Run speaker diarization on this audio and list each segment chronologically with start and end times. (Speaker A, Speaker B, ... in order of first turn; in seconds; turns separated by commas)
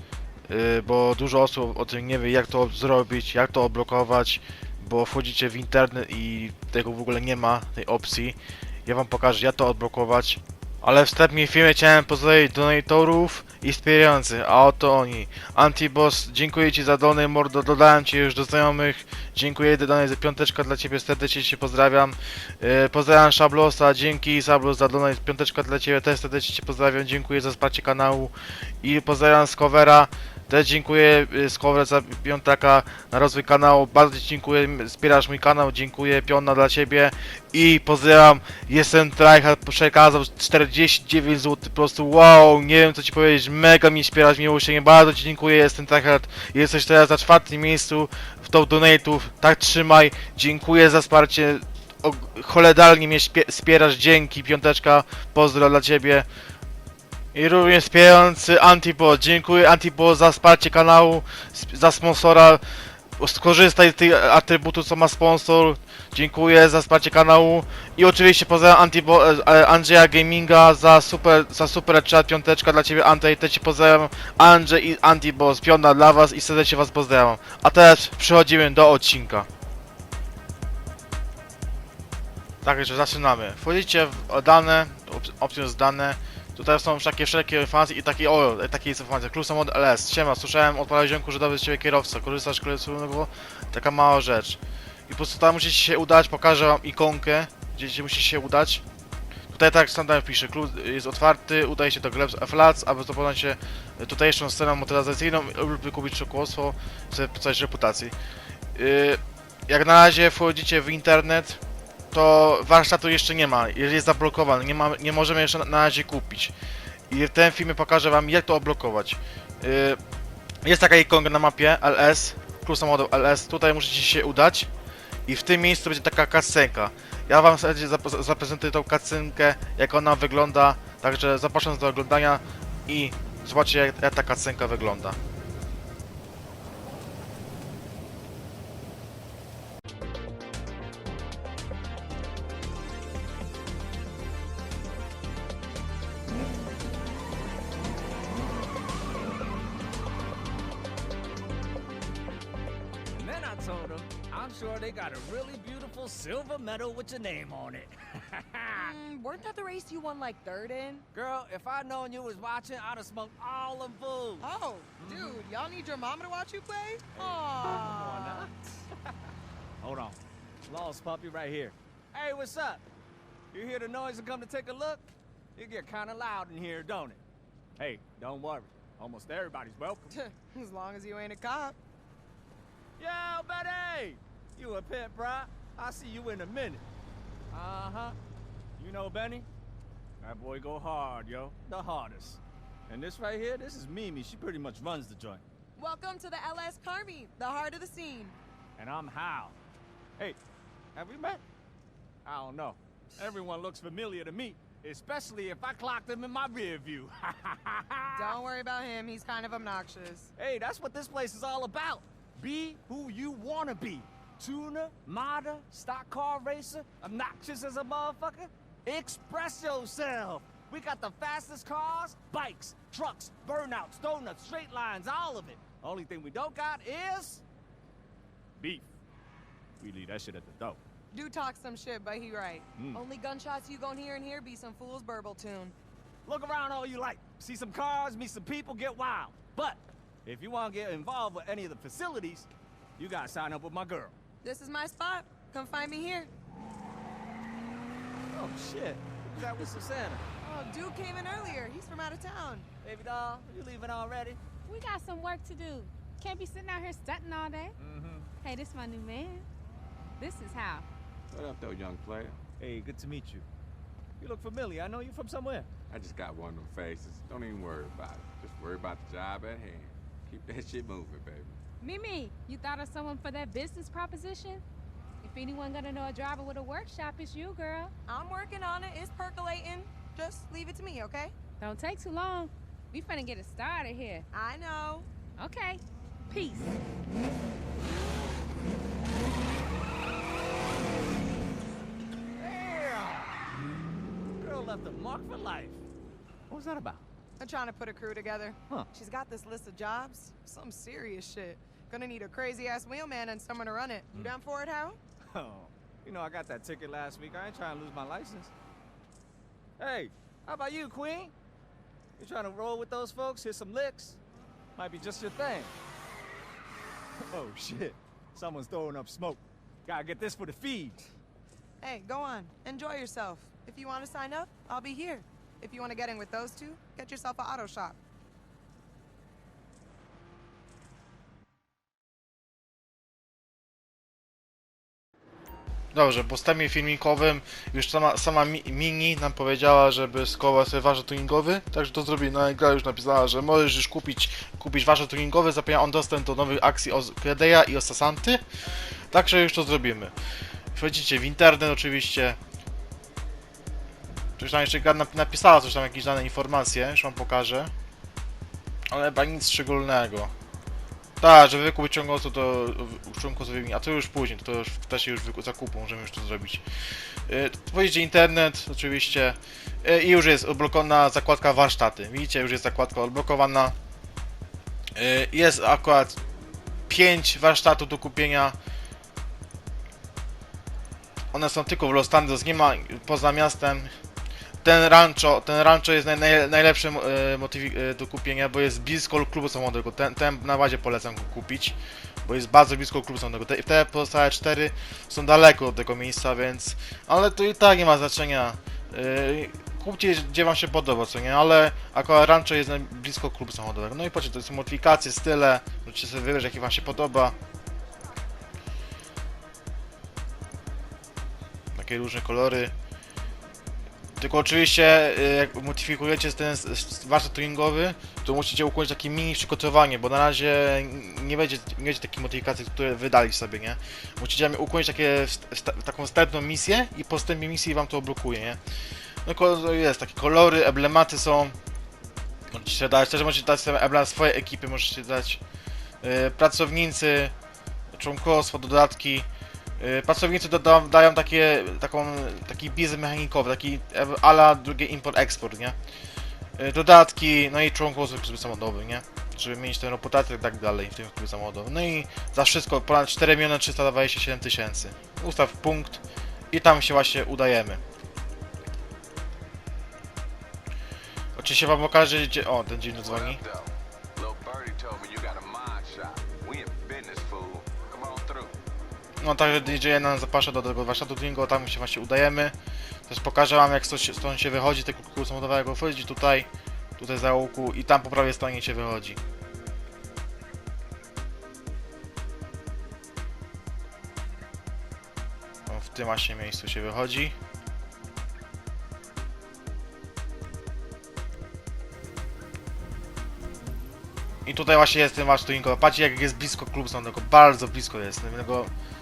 Speaker A: 0.5-56.3, Speaker A: 57.3-79.5, Speaker A: 82.6-98.8, Speaker A: 99.5-108.1, Speaker A: 108.7-111.6, Speaker A: 112.1-116.5, Speaker A: 117.1-120.0, Speaker A: 120.6-124.7, Speaker A: 125.3-135.2, Speaker B: 153.1-158.9, Speaker C: 158.7-161.1, Speaker B: 161.1-164.4, Speaker C: 164.4-168.5, Speaker B: 165.0-165.4, Speaker B: 167.1-168.5, Speaker B: 169.8-172.8, Speaker B: 173.5-177.2, Speaker B: 177.8-180.1, Speaker C: 180.1-181.8, Speaker B: 183.0-186.8, Speaker B: 187.5-188.2, Speaker B: 188.8-189.5, Speaker B: 190.2-195.4, Speaker C: 195.8-198.3, Speaker B: 198.8-199.6, Speaker B: 200.9-201.4, Speaker B: 202.2-208.4, Speaker C: 208.1-210.3, Speaker B: 210.4-227.4, Speaker B: 228.6-228.8, Speaker B: 229.8-230.8, Speaker C: 231.1-235.7, Speaker B: 232.8-233.0, Speaker B: 236.2-244.2, Speaker C: 244.4-246.3, Speaker B: 248.3-250.3, Speaker C: 250.4-252.7, Speaker B: 252.8-254.4, Speaker D: 254.7-257.8, Speaker B: 257.8-258.3, Speaker D: 258.4-259.5, Speaker D: 260.2-260.9, Speaker E: 261.3-262.4, Speaker B: 262.6-263.5, Speaker B: 264.2-265.7, Speaker E: 265.9-271.6, Speaker D: 271.8-274.6, Speaker D: 275.2-277.9, Speaker C: 278.1-281.3, Speaker D: 281.6-284.2, Speaker C: 284.3-285.1, Speaker D: 285.4-286.8, Speaker B: 292.4-293.4, Speaker B: 294.4-295.8, Speaker B: 296.5-297.1, Speaker C: 297.4-305.0, Speaker B: 305.3-308.5, Speaker B: 309.8-311.3, Speaker B: 312.2-314.2, Speaker B: 314.8-315.7, Speaker B: 317.3-321.1, Speaker C: 321.8-328.0, Speaker A: 335.9-348.4, Speaker A: 348.9-350.1, Speaker A: 350.7-352.4, Speaker A: 354.4-357.7, Speaker A: 358.9-360.3, Speaker A: 361.2-373.7, Speaker A: 374.9-376.2, Speaker A: 376.9-378.6, Speaker A: 381.3-383.9, Speaker A: 384.6-407.3, Speaker A: 411.7-412.7, Speaker A: 414.2-428.6, Speaker A: 429.2-431.5, Speaker A: 432.5-435.4, Speaker A: 436.0-437.3, Speaker A: 437.9-439.3, Speaker A: 439.8-445.8, Speaker A: 446.6-457.8, Speaker A: 461.4-463.4, Speaker E: 462.9-468.6, Speaker A: 469.2-472.5, Speaker A: 473.1-479.2, Speaker A: 485.7-487.3, Speaker A: 494.4-498.7